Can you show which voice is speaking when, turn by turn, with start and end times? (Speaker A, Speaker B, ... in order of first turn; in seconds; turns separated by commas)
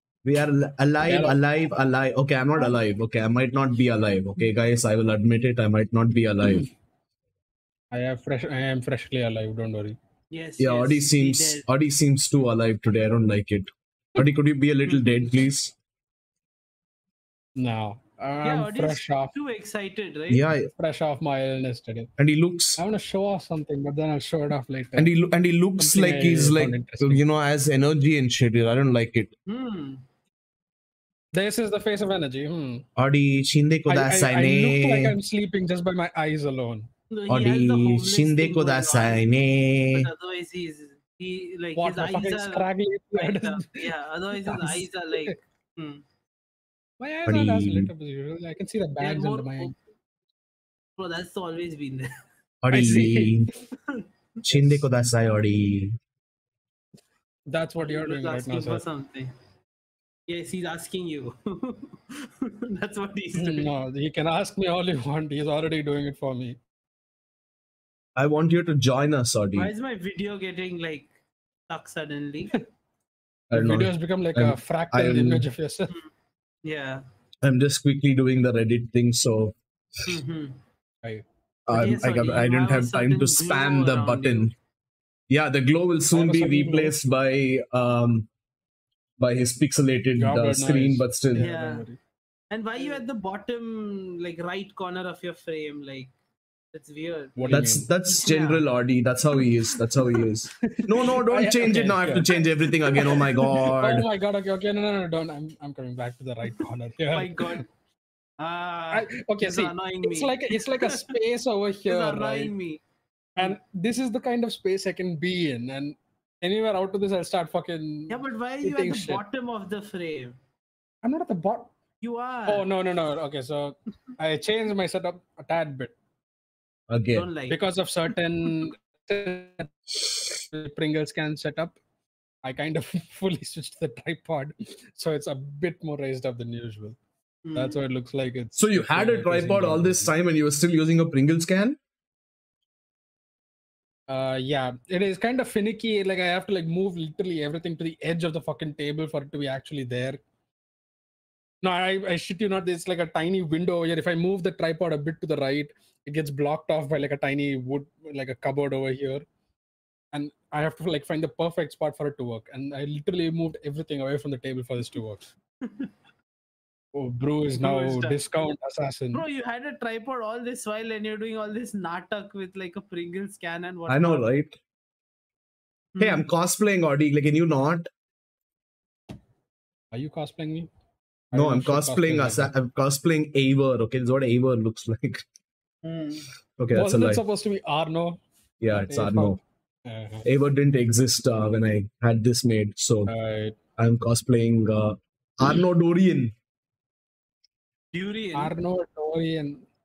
Speaker A: 0.2-6.7, Speaker B: 1.0-1.4, Speaker B: 7.9-10.0, Speaker C: 10.3-11.7, Speaker A: 10.6-15.7, Speaker B: 17.6-19.3, Speaker C: 18.4-20.4, Speaker A: 20.3-20.7, Speaker B: 20.8-22.1, Speaker A: 22.2-22.8, Speaker B: 22.8-25.1, Speaker A: 25.0-29.3, Speaker B: 25.8-27.2, Speaker C: 29.5-30.1, Speaker B: 31.3-32.9, Speaker A: 33.0-35.2, Speaker B: 33.9-36.9, Speaker C: 37.1-39.3, Speaker A: 37.3-40.1, Speaker C: 39.9-46.0, Speaker B: 41.8-43.9, Speaker B: 44.4-45.4, Speaker B: 47.0-49.7, Speaker A: 47.3-47.9, Speaker C: 49.0-49.8, Speaker C: 51.0-52.1, Speaker A: 52.6-53.5, Speaker B: 52.7-53.4, Speaker C: 53.7-54.1, Speaker A: 54.4-56.0, Speaker B: 54.5-54.8, Speaker B: 57.5-58.8, Speaker C: 57.8-59.3, Speaker C: 60.3-63.7, Speaker B: 63.4-66.6, Speaker A: 68.2-69.7, Speaker C: 69.5-71.1, Speaker C: 71.7-72.6, Speaker A: 73.5-75.5, Speaker B: 73.5-76.0, Speaker C: 76.6-77.0, Speaker A: 77.4-80.2, Speaker C: 80.1-80.6, Speaker A: 81.7-84.5, Speaker C: 81.7-84.5, Speaker A: 85.3-88.3, Speaker B: 86.1-87.0, Speaker A: 89.2-91.5, Speaker B: 90.2-92.0, Speaker C: 91.4-91.9, Speaker C: 92.5-96.1, Speaker C: 96.7-98.7, Speaker B: 97.4-97.9, Speaker A: 97.5-104.1, Speaker C: 99.7-100.2, Speaker B: 100.6-102.3, Speaker C: 102.9-103.3, Speaker B: 103.0-107.7, Speaker C: 107.1-107.7, Speaker C: 108.4-111.2, Speaker B: 108.9-112.5, Speaker C: 111.9-112.8, Speaker B: 113.4-119.2, Speaker C: 118.1-120.4, Speaker B: 121.0-121.7, Speaker C: 122.0-122.7, Speaker B: 122.5-126.0, Speaker A: 126.9-127.2, Speaker C: 127.2-127.6, Speaker B: 127.5-129.8, Speaker B: 130.5-131.8, Speaker B: 132.4-137.0, Speaker C: 137.4-137.8, Speaker B: 137.6-140.1, Speaker A: 138.6-141.8, Speaker B: 144.1-150.2, Speaker B: 151.6-159.2, Speaker B: 160.1-165.3, Speaker C: 165.6-165.9, Speaker B: 166.9-169.2, Speaker C: 167.6-168.2, Speaker C: 169.1-174.3, Speaker A: 173.9-174.6, Speaker C: 175.9-176.2, Speaker A: 176.0-177.9, Speaker B: 179.9-180.7, Speaker B: 181.3-182.5, Speaker A: 181.3-185.2, Speaker C: 185.8-186.3, Speaker A: 186.6-187.2, Speaker B: 186.7-190.3, Speaker A: 188.6-189.4, Speaker A: 190.3-193.1, Speaker B: 193.1-193.6, Speaker A: 193.8-196.3, Speaker C: 197.9-198.5, Speaker B: 198.3-199.7